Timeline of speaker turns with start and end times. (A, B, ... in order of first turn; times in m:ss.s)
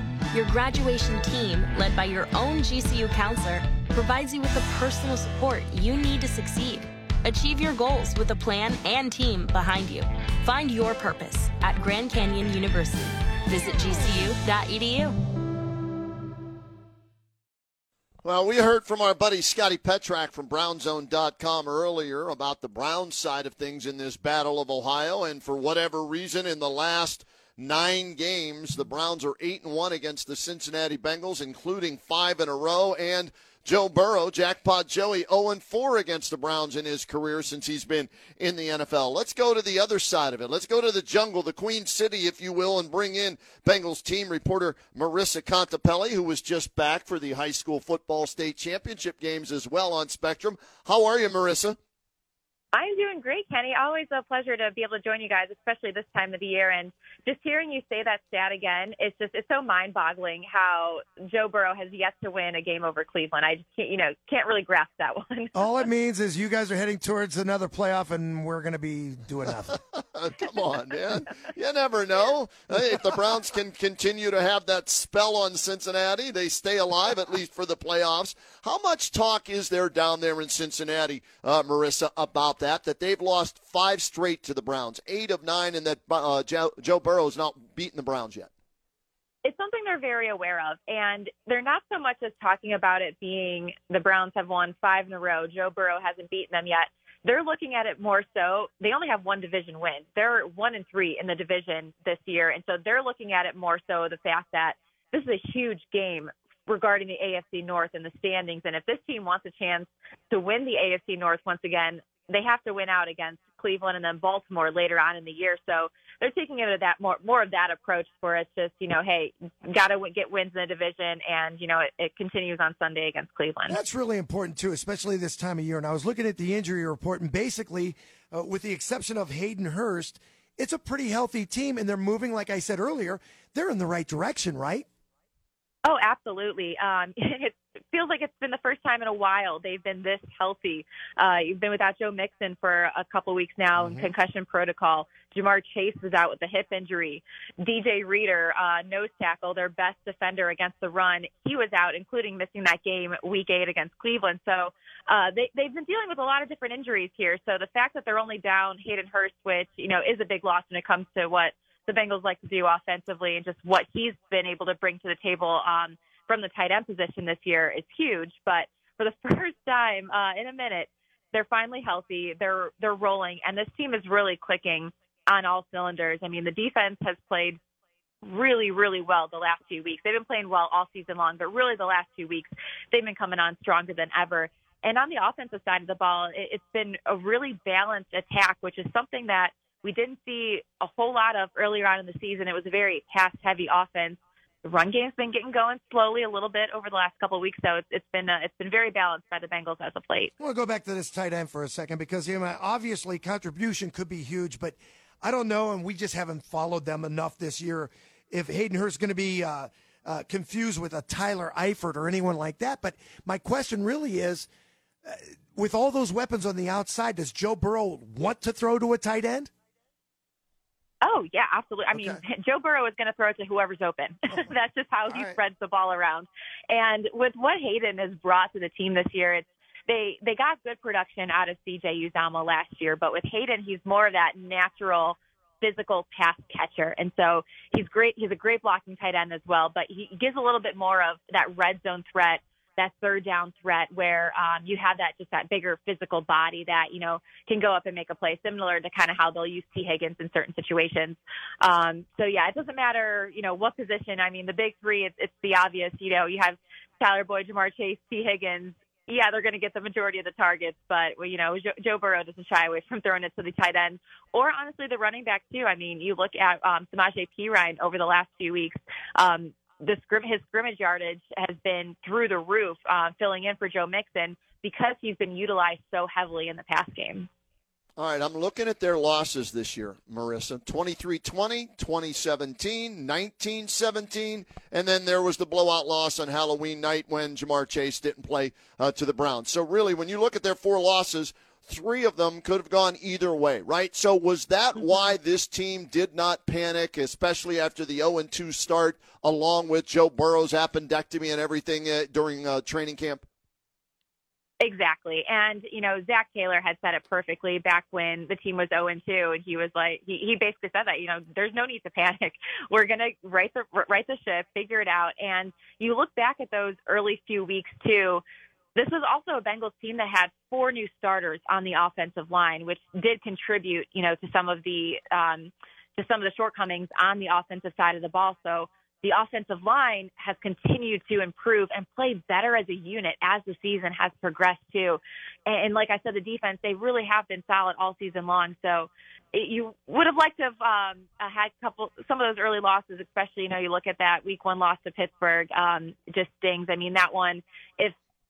0:00.3-0:15.2 A
0:18.2-0:51.8 B
0:52.7-1:05.5 C
1:05.5-1:09.8 D
1:09.9-1:28.5 B
1:29.4-2:03.8 C
2:03.7-2:14.8 D
2:15.8-2:57.6 C
2:58.2-3:20.3 C
3:20.4-3:34.5 D
3:35.0-3:39.5 D
3:41.0-4:37.3 C
3:41.9-3:42.2 D
3:45.1-3:45.3 D
4:38.0-5:03.2 B
5:04.6-5:18.2 C
5:18.7-5:47.9 C